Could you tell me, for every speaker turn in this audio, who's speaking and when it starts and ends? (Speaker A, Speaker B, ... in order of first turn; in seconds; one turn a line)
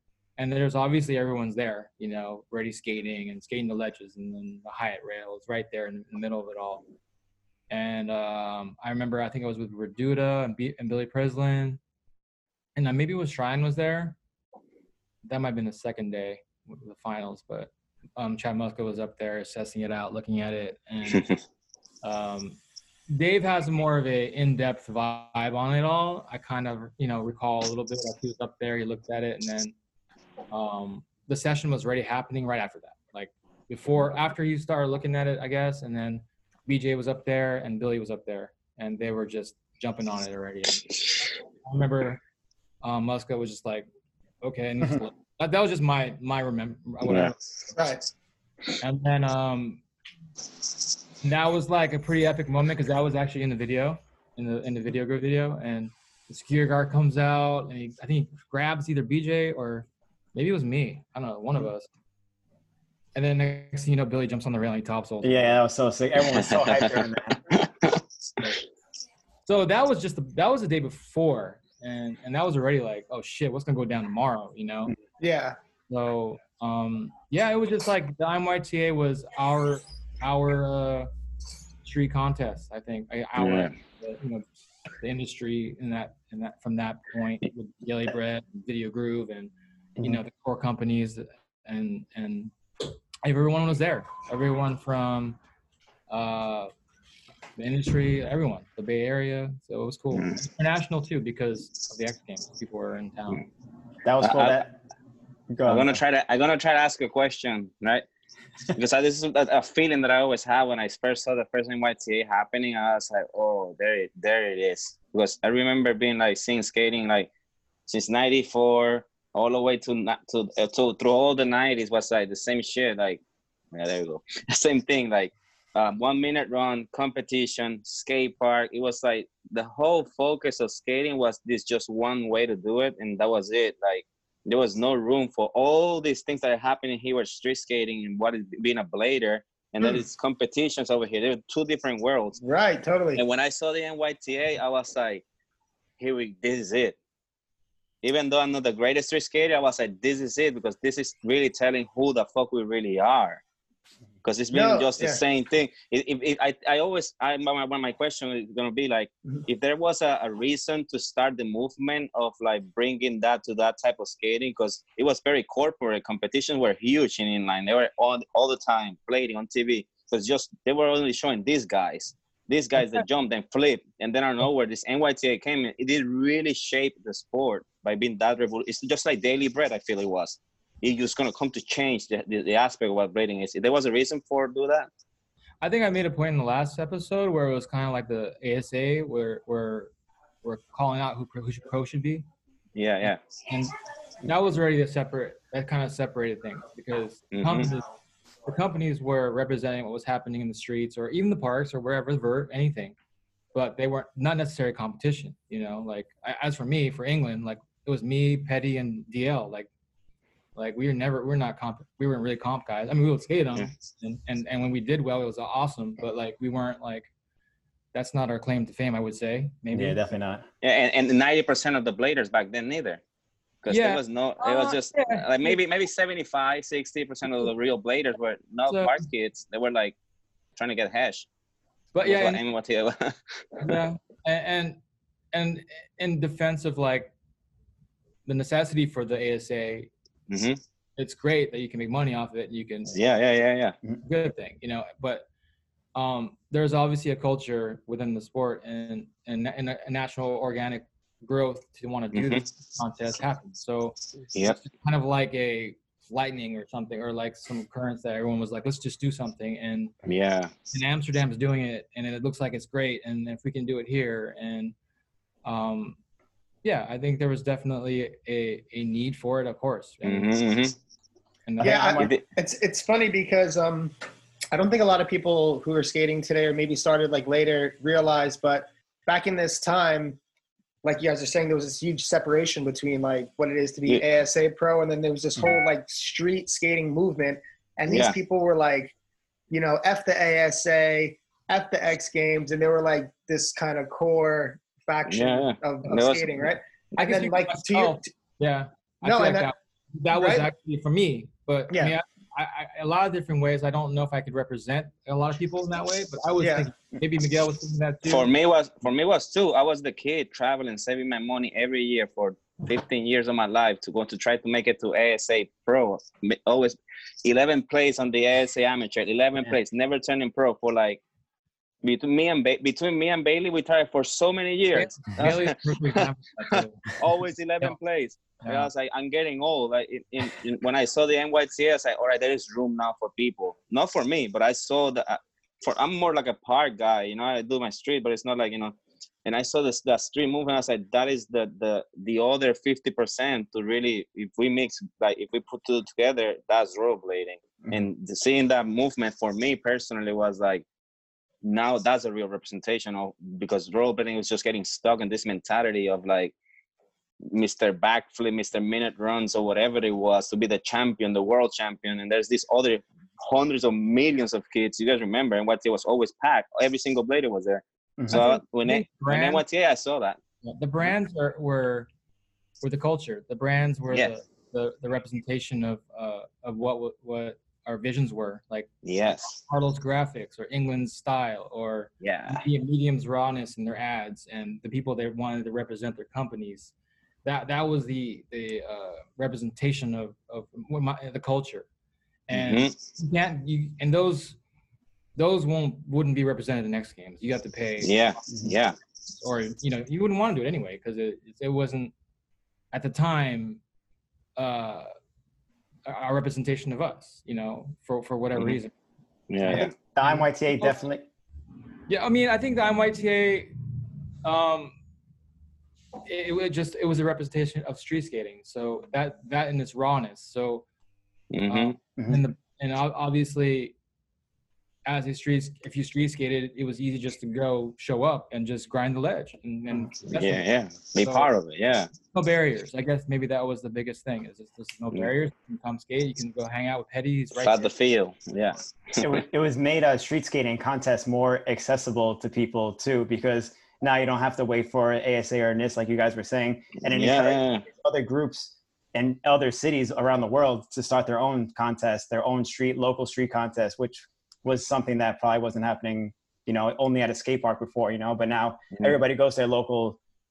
Speaker A: 0.4-6.8
Speaker A: 7.7-11.8
Speaker A: 12.8-14.2
Speaker A: 15.2-21.3
Speaker A: 22.0-22.6
Speaker A: 23.1-29.7
Speaker A: 30.5-42.2
Speaker A: 42.8-43.9
Speaker A: 44.4-47.4
Speaker B: 47.0-47.3
Speaker C: 47.8-48.0
Speaker A: 48.8-49.8
Speaker A: 51.2-61.9
Speaker A: 63.1-65.6
Speaker D: 65.2-67.6
Speaker B: 66.3-68.4
Speaker A: 69.5-74.9
Speaker C: 75.2-75.6
Speaker A: 75.9-81.1
Speaker A: 81.8-84.5
Speaker B: 83.4-83.7
Speaker A: 85.0-92.5
Speaker A: 93.2-95.4
Speaker A: 96.1-96.7
Speaker A: 97.6-103.5
Speaker D: 104.0-104.7
Speaker B: 104.2-104.7
Speaker D: 105.5-106.0
Speaker B: 105.6-108.0
Speaker B: 108.7-117.3
Speaker B: 117.9-123.2
Speaker B: 123.7-142.4
Speaker C: 142.4-143.2
Speaker B: 143.1-145.2
Speaker B: 146.0-147.0
Speaker B: 148.0-153.4
Speaker B: 154.2-184.9
Speaker C: 154.5-155.2
Speaker A: 185.6-189.9
Speaker A: 190.4-192.2
Speaker B: 192.7-193.2
Speaker A: 193.0-193.7
Speaker A: 194.2-197.8
Speaker B: 197.3-197.7
Speaker A: 198.4-202.9
Speaker A: 203.5-209.7
Speaker A: 210.5-217.1
Speaker A: 217.9-220.1
Speaker D: 219.7-220.4
Speaker B: 220.6-223.0
Speaker B: 223.6-229.9
Speaker A: 223.7-225.6
Speaker A: 228.7-229.0
Speaker B: 230.6-231.3
Speaker A: 231.9-232.4
Speaker B: 232.0-233.8
Speaker A: 233.6-234.8
Speaker A: 235.3-237.1
Speaker A: 238.3-239.9
Speaker B: 240.3-240.6
Speaker A: 241.0-243.0
Speaker B: 242.9-243.8
Speaker A: 244.0-245.3
Speaker A: 245.9-259.9
Speaker B: 252.1-252.4
Speaker B: 260.1-260.5
Speaker A: 260.7-264.7
Speaker A: 265.4-266.0
Speaker A: 266.6-270.4
Speaker B: 270.0-270.7
Speaker A: 271.4-272.1
Speaker C: 271.6-273.9
Speaker B: 271.9-272.2
Speaker C: 274.5-280.2
Speaker C: 280.8-288.9
Speaker B: 287.9-288.1
Speaker C: 289.5-298.0
Speaker B: 295.1-296.5
Speaker A: 297.0-308.3
Speaker C: 299.0-299.5
Speaker C: 300.1-300.5
Speaker C: 301.7-302.0
Speaker C: 306.4-306.7
Speaker B: 308.1-321.0
Speaker B: 321.8-326.0
Speaker A: 324.7-326.9
Speaker B: 326.5-350.6
Speaker A: 328.4-328.7
Speaker D: 347.6-347.9
Speaker B: 351.4-356.3
Speaker B: 357.3-370.2
Speaker A: 368.1-369.4
Speaker A: 370.4-371.9
Speaker A: 372.6-386.7
Speaker B: 378.8-379.4
Speaker B: 382.0-382.4
Speaker A: 387.2-391.7
Speaker A: 392.3-394.4
Speaker B: 392.3-392.7
Speaker A: 395.1-397.9
Speaker B: 397.8-398.8
Speaker A: 399.2-401.9
Speaker A: 402.7-403.6
Speaker A: 404.4-404.9
Speaker A: 405.9-408.7
Speaker B: 409.3-409.7
Speaker A: 409.5-410.8
Speaker D: 409.5-411.0
Speaker A: 411.9-413.6
Speaker A: 414.2-414.8
Speaker A: 416.0-420.6
Speaker B: 421.3-421.7
Speaker A: 421.5-423.7
Speaker D: 422.0-422.2
Speaker A: 424.9-430.4
Speaker B: 430.1-431.9
Speaker A: 431.0-431.3
Speaker A: 432.1-437.7
Speaker B: 437.3-439.2
Speaker D: 439.0-460.0
Speaker B: 446.9-447.6